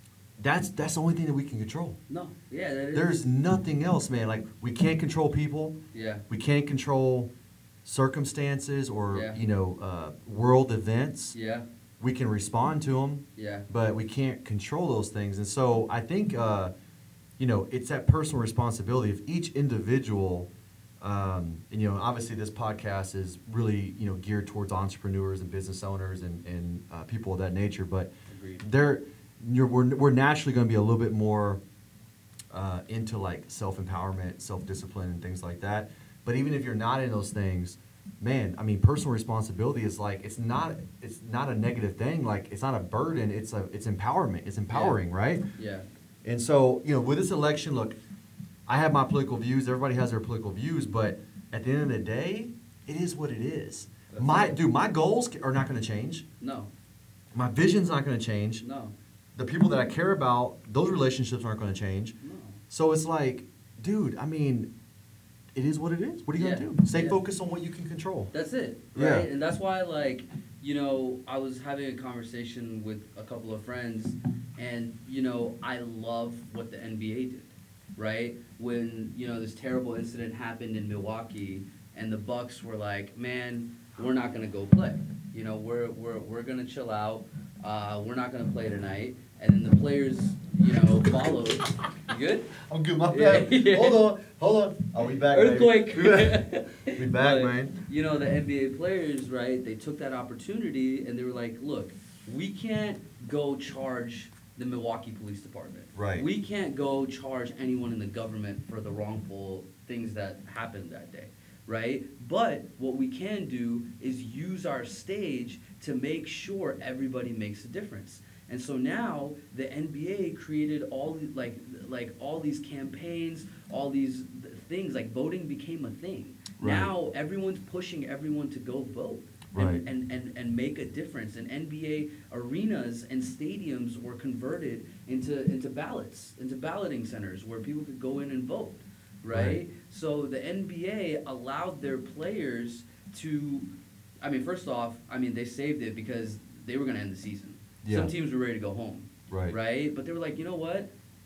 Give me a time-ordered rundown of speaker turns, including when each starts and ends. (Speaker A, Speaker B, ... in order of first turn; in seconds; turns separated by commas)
Speaker A: 0.4-2.0, Speaker B: 2.1-3.2, Speaker A: 2.9-5.7, Speaker B: 5.9-6.2, Speaker A: 6.3-7.3, Speaker A: 7.8-11.3, Speaker B: 9.1-9.4, Speaker B: 11.3-11.7, Speaker A: 12.0-16.7, Speaker B: 13.3-13.7, Speaker A: 17.4-20.5, Speaker A: 21.0-31.6, Speaker B: 28.3-28.6, Speaker A: 32.5-45.4, Speaker B: 44.7-45.0, Speaker B: 45.6-45.9, Speaker A: 46.2-48.0, Speaker A: 48.7-56.2, Speaker B: 54.1-54.6, Speaker B: 56.4-56.7, Speaker A: 57.3-58.6, Speaker B: 58.6-58.9, Speaker A: 59.4-62.1, Speaker B: 62.2-62.6, Speaker A: 62.7-64.7, Speaker A: 65.5-68.3, Speaker B: 66.3-67.2, Speaker B: 68.3-92.5, Speaker A: 68.9-69.3, Speaker A: 92.6-97.8, Speaker B: 93.1-94.0, Speaker B: 95.1-143.7, Speaker A: 105.9-106.3, Speaker A: 126.6-126.9, Speaker A: 129.5-129.8, Speaker A: 139.3-139.6, Speaker B: 144.2-150.9, Speaker A: 147.8-148.1, Speaker A: 149.3-149.5